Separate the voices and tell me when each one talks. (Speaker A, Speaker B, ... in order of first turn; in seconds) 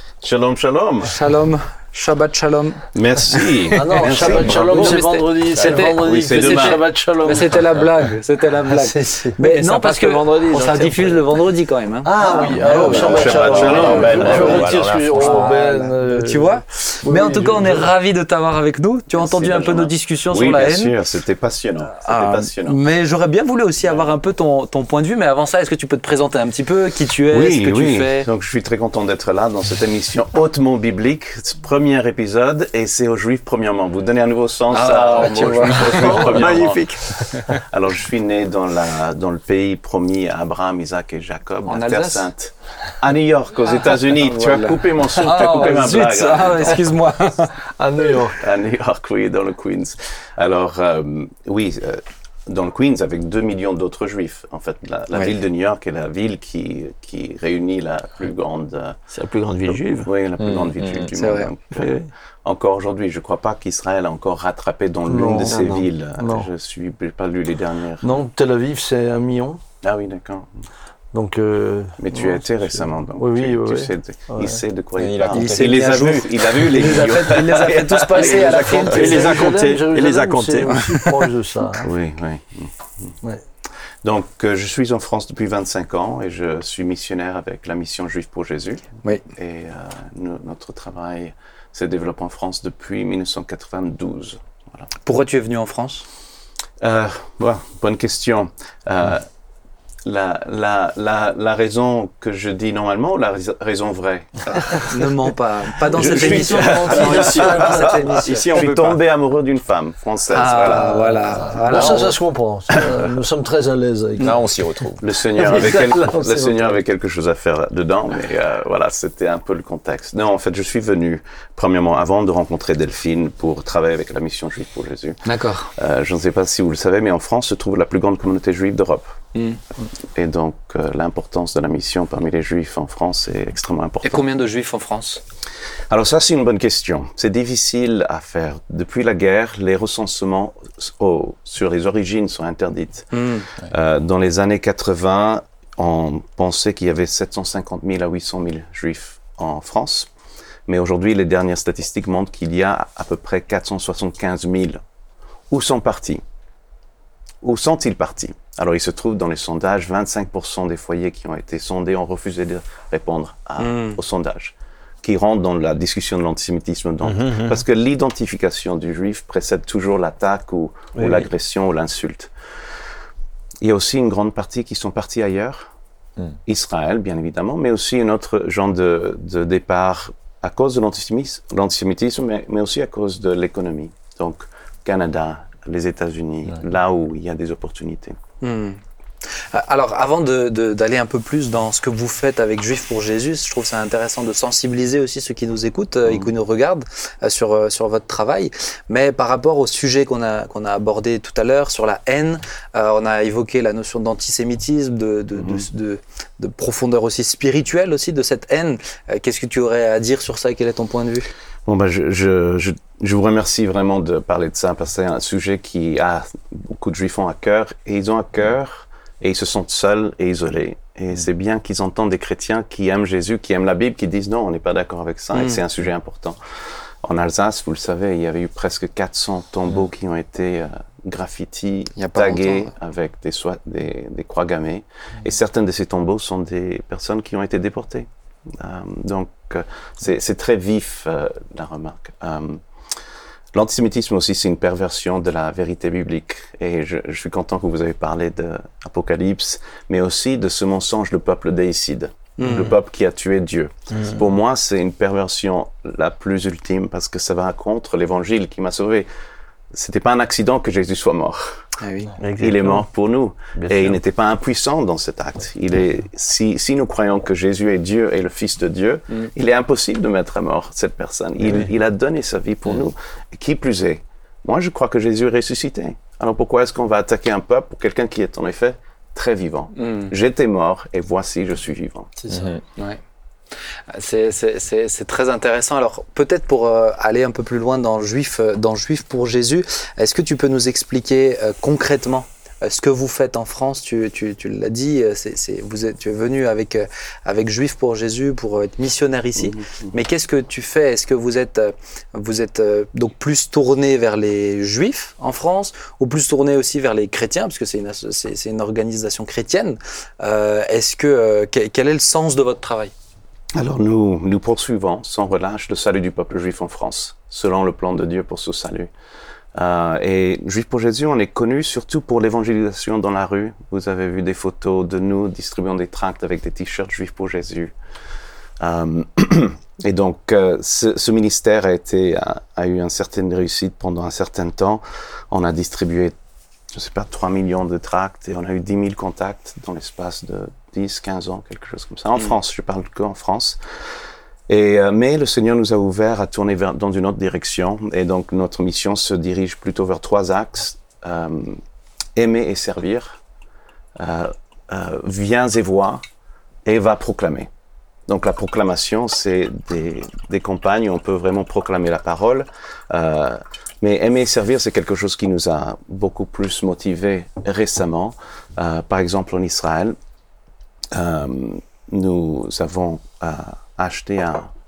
Speaker A: 0.2-1.2, 3.0-5.1, 5.6-6.8, 12.6-15.0, 19.1-22.8, 27.3-46.9, 48.3-59.0, 59.7-68.2, 69.8-70.5, 72.0-79.5, 81.8-83.2, 84.0-94.9, 96.8-99.3, 100.0-105.0, 105.9-112.0, 112.7-113.0, 115.0-125.3, 125.8-129.2, 130.1-134.3, 135.9-150.1, 150.7-154.8, 155.5-156.2, 157.4-172.3, 173.6-175.7, 176.5-188.2, 205.4-205.7, 211.7-226.4, 227.0-242.6, 243.5-259.1, 259.7-261.6, 262.4-282.1, 299.4-299.9, 313.6-318.9, 319.6-327.7, 328.6-336.2, 336.7-343.6, 344.5-351.6, 352.2-353.2, 354.0-356.0, 356.7-357.5, 358.1-370.0, 370.9-374.5
Speaker B: 1.1-3.5, 4.0-20.9, 22.1-28.3, 34.7-36.6, 41.7-42.3, 44.0-47.6, 61.1-61.5, 75.3-79.5, 95.0-96.1, 104.5-109.0, 110.3-112.1, 125.2-125.7, 129.3-129.6, 134.0-135.2, 143.1-143.5, 163.6-164.0, 188.4-188.8, 189.5-211.3, 225.3-225.6, 232.0-232.7, 252.4-252.8, 261.8-262.1, 279.8-280.1, 283.9-312.9
Speaker C: 3.7-7.6, 8.7-9.4, 12.0-17.9, 45.4-45.7, 47.8-48.4, 65.1-66.5, 68.0-69.6, 71.1-74.6, 78.8-81.9, 106.0-108.2, 110.8-114.4, 115.3-116.8, 282.2-282.5
Speaker D: 9.4-11.3, 12.7-14.4, 35.7-37.5, 59.1-60.1, 61.7-62.1, 65.4-65.9, 78.2-81.3, 167.0-167.6, 171.0-171.3, 262.2-262.9, 263.6-264.0
Speaker E: 13.1-15.5, 60.4-61.1, 75.0-76.0, 111.7-112.0, 114.2-115.2, 282.3-282.6